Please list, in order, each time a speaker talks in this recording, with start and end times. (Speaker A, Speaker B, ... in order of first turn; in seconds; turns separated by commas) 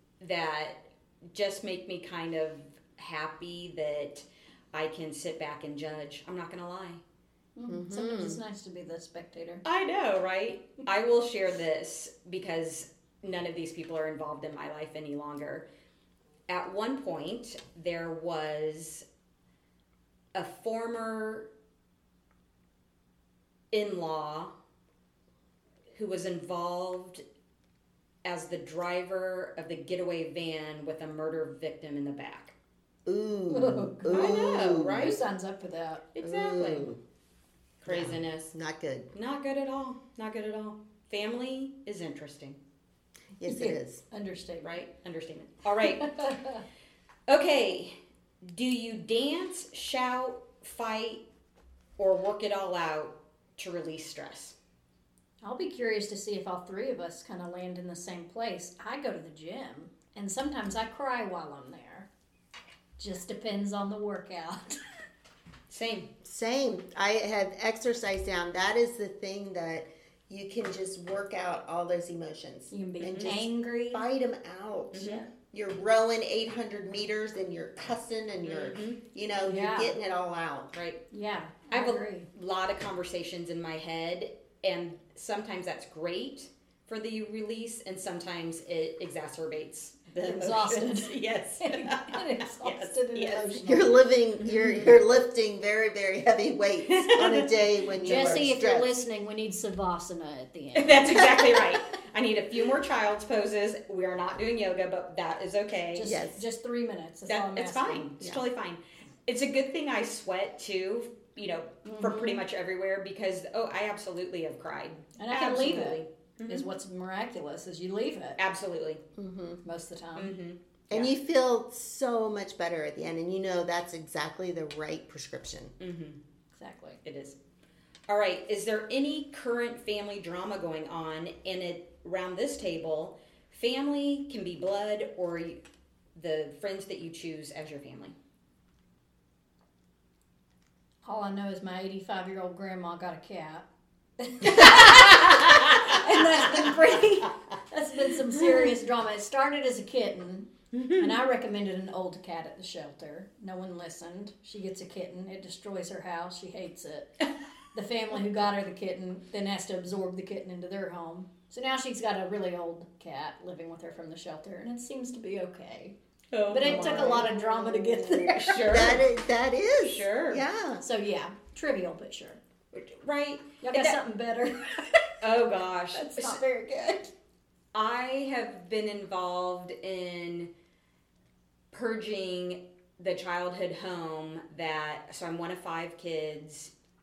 Speaker A: 0.2-7.0, Speaker B: 7.5-9.6, Speaker C: 7.7-8.4, Speaker A: 9.6-15.7, Speaker A: 16.5-19.0, Speaker A: 20.3-21.5, Speaker A: 23.7-24.5, Speaker A: 25.9-27.2, Speaker A: 28.2-32.5, Speaker C: 33.0-35.1, Speaker B: 33.5-36.0, Speaker A: 34.1-35.2, Speaker A: 36.1-36.9, Speaker C: 36.2-37.0, Speaker A: 37.8-38.5, Speaker C: 37.9-39.1, Speaker A: 39.1-42.6, Speaker C: 43.4-44.0, Speaker B: 43.5-44.7, Speaker A: 44.6-46.3, Speaker B: 45.8-46.6, Speaker A: 47.3-51.2, Speaker A: 52.0-54.5, Speaker B: 55.4-62.1, Speaker B: 63.0-64.8, Speaker A: 65.7-66.1, Speaker C: 66.2-80.7, Speaker B: 72.7-74.0, Speaker A: 73.0-73.3, Speaker A: 74.9-75.3, Speaker A: 78.4-79.0, Speaker B: 79.4-80.0, Speaker A: 80.7-81.0, Speaker B: 81.1-82.3, Speaker A: 81.7-93.6, Speaker B: 90.2-94.0, Speaker C: 93.6-98.9, Speaker A: 94.4-95.0, Speaker A: 96.9-97.5, Speaker B: 98.0-101.8, Speaker A: 98.0-98.5, Speaker A: 100.7-106.1, Speaker B: 105.9-108.1, Speaker C: 106.0-106.4, Speaker A: 107.3-116.7, Speaker B: 111.8-112.4, Speaker B: 115.2-118.4, Speaker A: 118.4-119.0, Speaker C: 119.2-119.6, Speaker B: 119.6-120.3, Speaker A: 120.2-121.1, Speaker C: 120.9-125.7, Speaker A: 125.8-126.2, Speaker B: 126.5-127.0, Speaker A: 127.0-127.4, Speaker A: 128.1-135.6, Speaker A: 136.1-138.1, Speaker B: 141.0-143.7, Speaker B: 144.2-165.9, Speaker A: 144.4-145.8, Speaker A: 146.4-147.0, Speaker A: 166.3-167.3, Speaker B: 166.5-168.8, Speaker C: 166.7-167.2, Speaker A: 168.3-169.0, Speaker C: 168.6-170.8, Speaker A: 169.8-170.4, Speaker B: 170.8-172.4, Speaker A: 172.7-174.0, Speaker B: 173.6-177.1, Speaker A: 175.2-176.4, Speaker A: 177.7-180.5, Speaker A: 181.7-186.7